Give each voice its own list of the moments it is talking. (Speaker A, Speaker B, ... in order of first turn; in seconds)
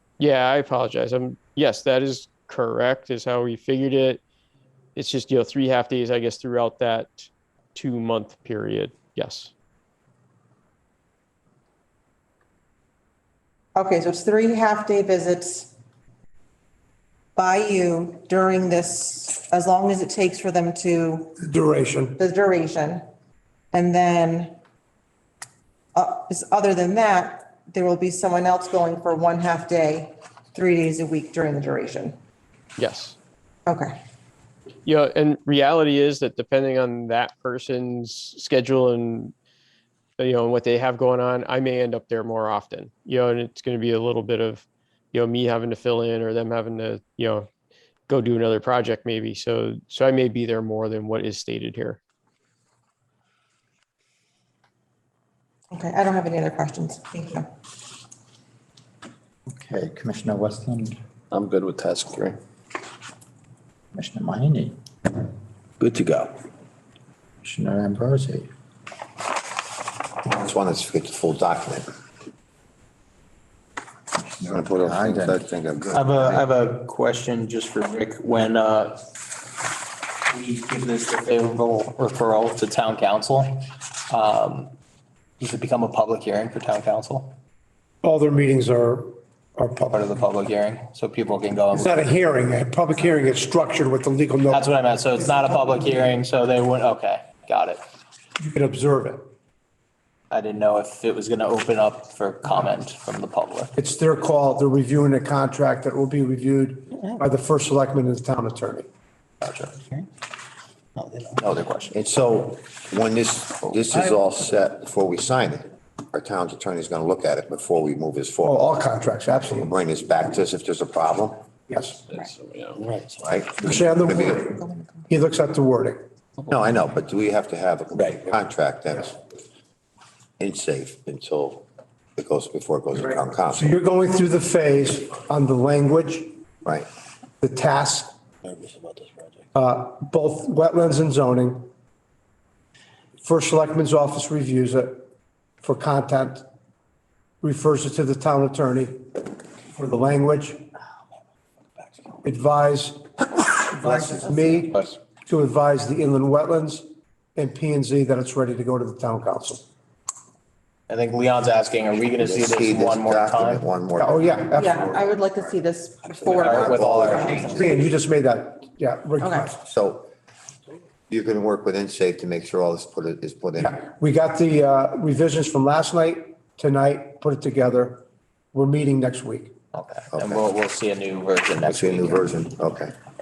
Speaker A: 0.2-4.2, 5.0-9.5, 32.8-33.2, 34.9-39.3, 40.2-47.5, 48.1-52.0
Speaker B: 13.8-15.7, 17.4-21.4, 22.2-23.0, 23.7-24.5, 25.9-32.1, 33.6-33.9, 55.7-57.5, 124.6-125.0, 164.5-167.8, 169.2-169.5
Speaker C: 21.4-22.2, 88.0-90.0, 91.7-94.7, 98.4-99.2, 103.8-108.9, 118.4-119.7, 121.7-122.0, 123.6-126.0, 133.5-136.3, 137.4-138.1, 139.5-141.7, 143.2-145.0, 145.6-146.4, 147.4-148.9, 149.7-150.6, 152.2-159.6, 164.0-165.1, 167.6-169.7, 173.6-179.5
Speaker D: 59.5-61.0, 63.9-64.8, 67.4-68.5, 74.4-75.4
Speaker E: 61.3-62.3, 70.2-71.9, 74.5-76.4, 111.9-118.6, 119.5-121.4, 122.1-124.5, 126.5-129.2, 130.4-131.6, 132.2-133.7, 162.2-164.4, 166.5-167.7, 169.6-170.1, 171.1-173.8, 180.1-180.5, 181.6-182.9
Speaker F: 65.8-66.3, 75.9-79.0, 80.3-84.7, 85.4-87.4, 89.9-92.0, 94.5-97.8, 100.3-103.7, 109.4-110.0, 111.0-111.9, 154.6-155.0, 160.9-163.6, 166.2-167.6, 179.7-182.3